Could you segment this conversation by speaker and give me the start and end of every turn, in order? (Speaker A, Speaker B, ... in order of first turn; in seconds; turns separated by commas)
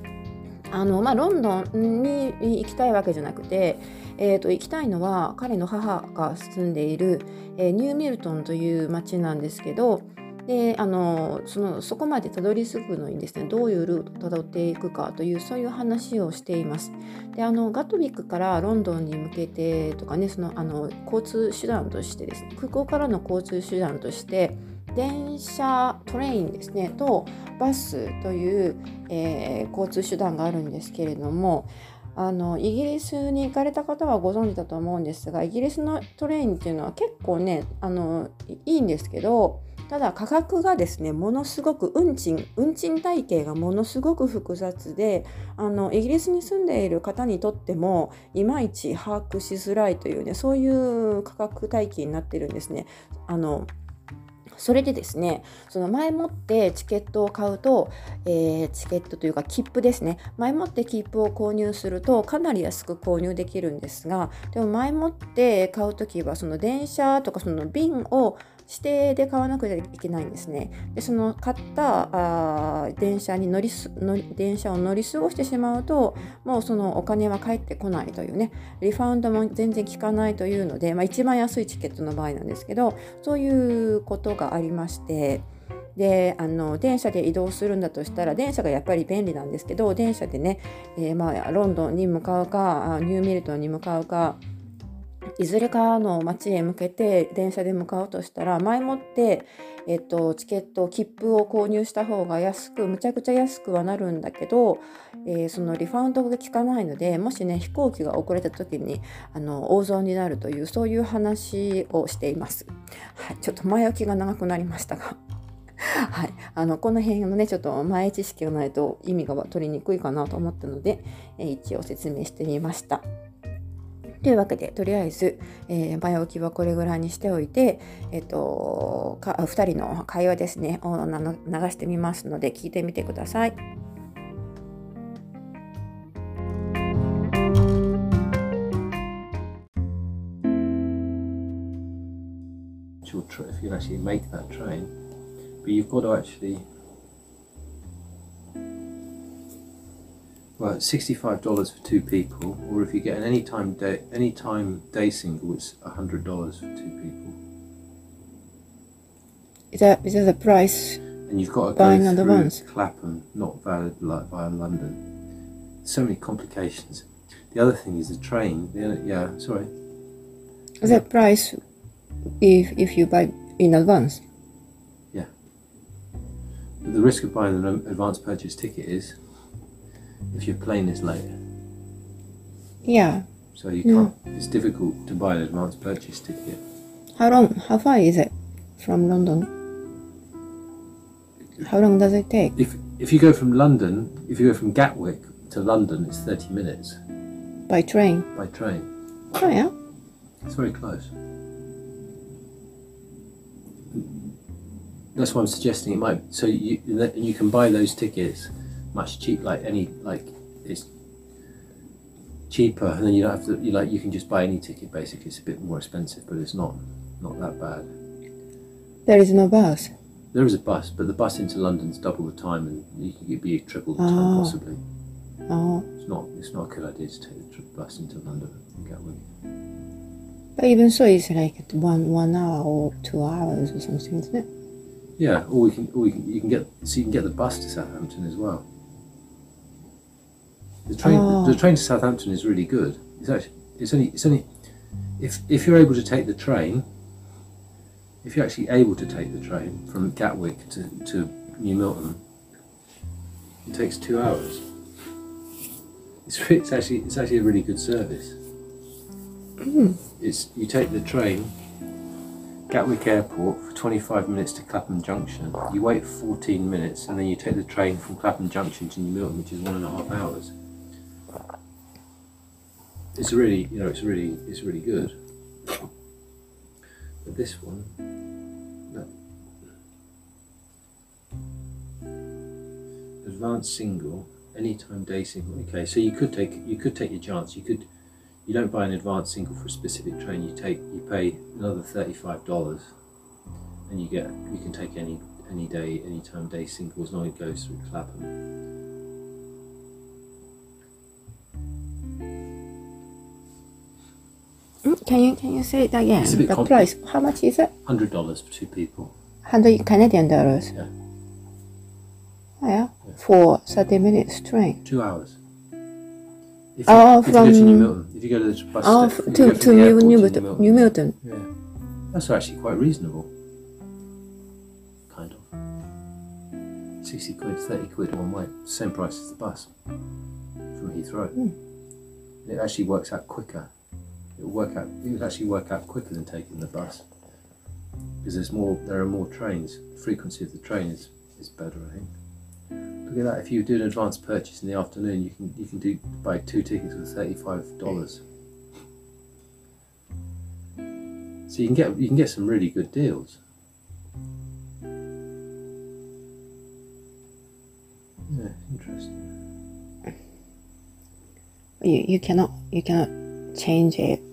Speaker A: 0.7-53.7, Speaker A: 54.5-94.4, Speaker A: 95.4-115.2, Speaker A: 115.8-123.0, Speaker A: 124.2-133.6, Speaker B: 143.0-144.9, Speaker B: 145.6-146.6, Speaker B: 150.6-157.4, Speaker A: 159.7-161.0, Speaker B: 161.3-165.0, Speaker A: 161.8-162.6, Speaker B: 165.8-169.7, Speaker A: 170.8-171.6, Speaker A: 172.4-174.2, Speaker B: 176.8-179.2, Speaker B: 180.3-181.4, Speaker A: 182.8-183.2, Speaker B: 183.5-186.6, Speaker A: 183.8-184.1, Speaker A: 187.2-189.5, Speaker A: 191.6-192.5, Speaker B: 192.6-197.0, Speaker A: 197.7-198.3, Speaker B: 198.3-198.9, Speaker A: 199.3-199.7, Speaker B: 200.4-201.1, Speaker B: 205.1-210.9, Speaker B: 212.5-217.9, Speaker A: 219.1-219.9, Speaker B: 220.3-224.8, Speaker A: 224.0-224.6, Speaker A: 225.5-225.9, Speaker B: 226.0-229.2, Speaker A: 230.6-234.4, Speaker B: 235.2-238.6, Speaker B: 240.9-244.5, Speaker A: 241.0-241.6, Speaker B: 245.2-246.8, Speaker B: 248.2-252.2, Speaker B: 253.7-254.7, Speaker B: 256.2-258.4, Speaker A: 259.6-260.0, Speaker B: 260.2-261.5, Speaker B: 262.7-270.5, Speaker B: 273.1-275.1, Speaker B: 277.2-278.0, Speaker B: 283.2-287.9, Speaker B: 288.4-292.9, Speaker B: 293.9-298.3, Speaker A: 304.8-307.7, Speaker B: 306.2-306.9, Speaker B: 307.9-309.1, Speaker A: 309.4-310.8, Speaker A: 312.6-314.8, Speaker B: 314.8-315.4, Speaker B: 316.8-321.5, Speaker A: 316.9-317.9, Speaker A: 318.8-321.2, Speaker B: 322.1-323.3, Speaker B: 325.1-325.5, Speaker B: 327.0-329.7, Speaker B: 330.7-331.4, Speaker B: 332.4-333.7, Speaker B: 334.4-337.0, Speaker B: 338.2-342.1, Speaker B: 343.1-348.2, Speaker B: 351.5-353.4, Speaker B: 358.3-359.3, Speaker A: 361.8-364.2